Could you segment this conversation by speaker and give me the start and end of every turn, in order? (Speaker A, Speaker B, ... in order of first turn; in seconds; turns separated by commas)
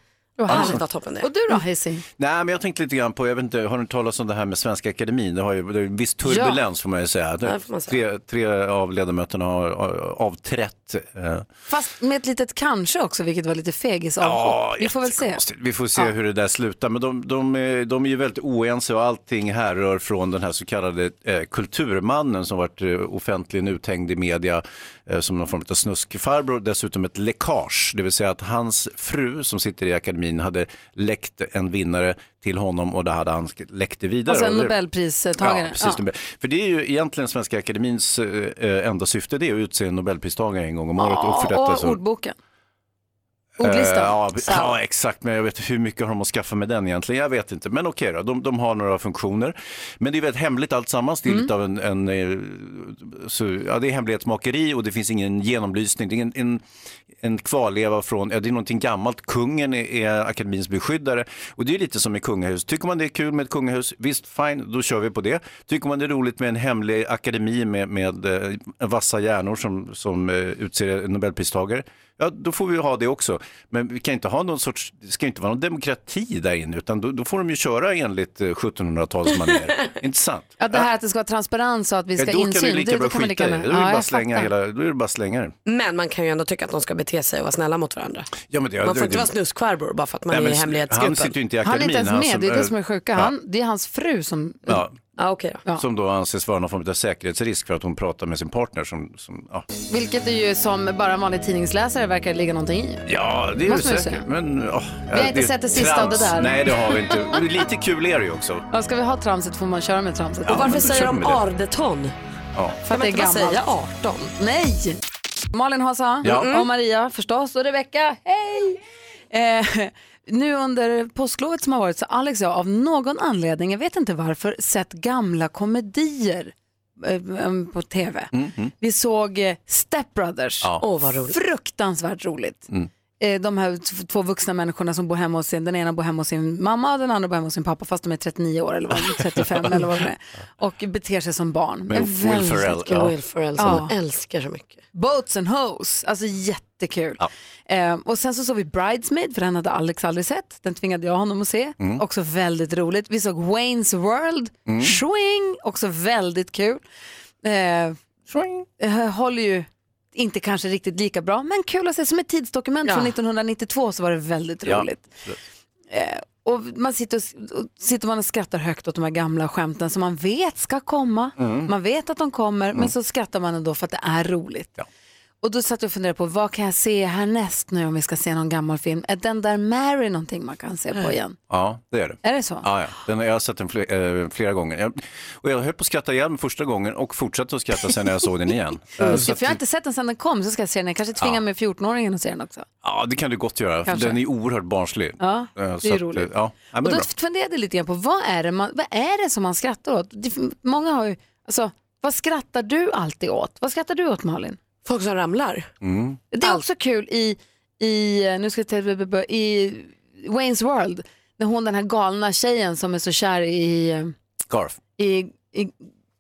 Speaker A: 0.4-2.0, Speaker B: 0.5-1.3, Speaker C: 0.5-0.8, Speaker C: 2.2-11.5, Speaker A: 6.3-6.6, Speaker B: 7.5-8.0, Speaker A: 11.7-15.4, Speaker C: 14.2-34.8, Speaker A: 34.3-36.0, Speaker C: 35.4-42.0, Speaker A: 41.0-42.4, Speaker A: 43.6-44.2, Speaker C: 43.6-56.6, Speaker C: 57.2-80.9, Speaker A: 80.6-84.5, Speaker C: 82.2-85.5, Speaker B: 85.7-91.3, Speaker C: 88.5-89.3, Speaker C: 90.3-93.3, Speaker A: 91.6-94.8, Speaker C: 94.7-95.0, Speaker B: 95.2-95.6, Speaker C: 95.8-99.7, Speaker A: 99.9-103.1, Speaker C: 103.1-108.7, Speaker A: 103.6-104.2, Speaker A: 105.1-106.9, Speaker A: 108.7-110.8, Speaker C: 110.5-111.4, Speaker B: 110.5-112.1, Speaker A: 112.9-113.7, Speaker B: 112.9-114.3, Speaker A: 114.3-115.0, Speaker A: 115.5-130.8, Speaker B: 116.2-116.7, Speaker C: 128.3-128.7, Speaker B: 130.8-131.4, Speaker A: 131.3-142.7, Speaker C: 141.9-143.1, Speaker B: 142.7-144.8, Speaker A: 143.6-143.9, Speaker A: 144.9-156.8, Speaker C: 154.7-155.0, Speaker A: 157.4-158.0, Speaker C: 158.3-158.7, Speaker A: 158.8-165.1, Speaker C: 164.7-165.4, Speaker A: 165.9-174.8, Speaker C: 171.4-171.7, Speaker A: 175.4-181.4, Speaker C: 181.5-189.6, Speaker A: 182.2-182.7, Speaker A: 189.1-192.7, Speaker C: 192.8-197.1, Speaker A: 193.9-194.2, Speaker A: 195.2-204.6, Speaker B: 204.8-205.7, Speaker C: 205.8-206.2, Speaker A: 206.3-214.1, Speaker C: 214.5-214.8, Speaker A: 215.0-215.8